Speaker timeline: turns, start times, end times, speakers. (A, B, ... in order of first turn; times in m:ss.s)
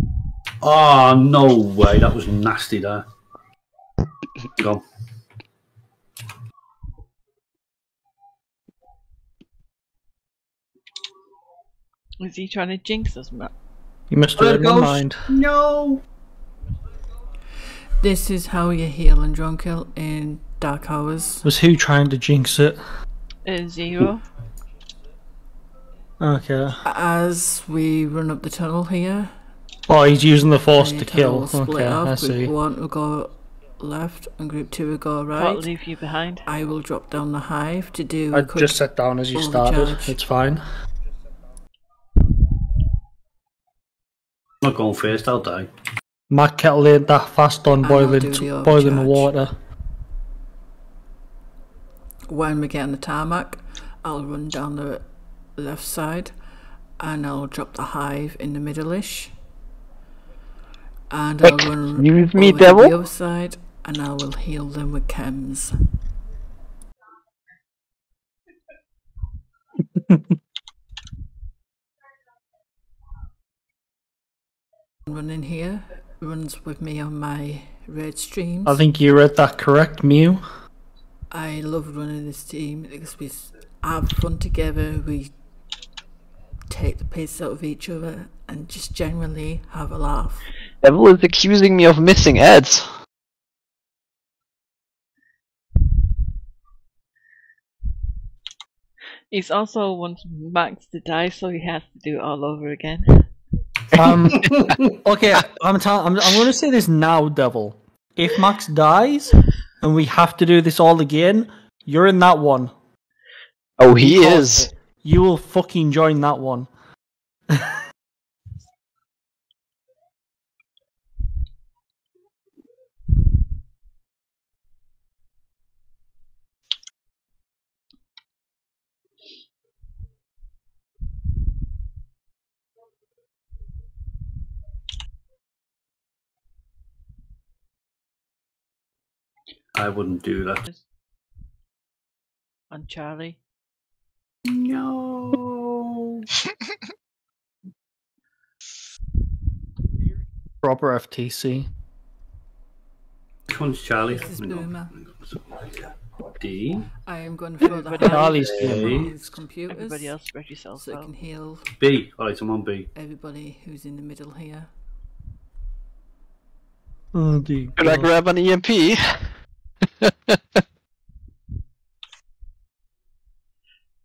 0:00.6-0:03.0 A
0:04.6-0:04.8 A
0:12.2-0:13.5 B
0:14.1-0:15.3 C
0:14.4-0:16.0 A
0:18.0-0:21.4 D
0:21.4-0:22.8 C
0:23.4-0:24.2 B
0:26.2-0:26.8 C
0:26.8-0:29.3 D
0:29.9-0:32.5 C
0:30.7-0:35.7 D
0:35.3-0:36.5 B
0:36.4-0:38.8 D
0:38.3-0:40.6 C
0:39.3-0:40.2 D
0:44.6-0:45.7 A
0:46.3-0:49.5 C
0:47.8-0:49.3 D
0:52.3-0:55.0 D
0:55.6-0:56.3 D
0:57.0-0:59.3 D
1:01.1-1:05.8 D
1:01.4-1:02.9 E
1:10.0-1:10.2 C
1:15.0-1:18.8 D
1:18.6-1:20.4 C
1:21.3-1:25.3 D
1:26.7-1:30.5 D
1:30.8-1:32.9 E
1:39.3-1:43.3 B
1:43.9-1:44.5 C
1:43.9-1:45.0 A
1:45.0-1:52.7 C
1:53.8-1:54.7 E
1:54.0-1:56.7 C
2:19.7-2:20.6 A
2:22.7-2:23.4 B
2:30.6-2:31.7 C
2:33.5-2:36.9 A
2:34.1-2:34.9 D
2:37.0-2:40.1 D
2:37.6-2:39.1 B
2:38.0-2:38.8 C
2:38.4-2:39.1 A
2:39.7-2:41.1 B
2:40.8-2:41.6 D
2:41.8-2:42.9 A
2:42.9-2:44.7 D
2:47.1-2:48.1 C
2:47.8-2:49.3 E
2:50.0-2:50.6 E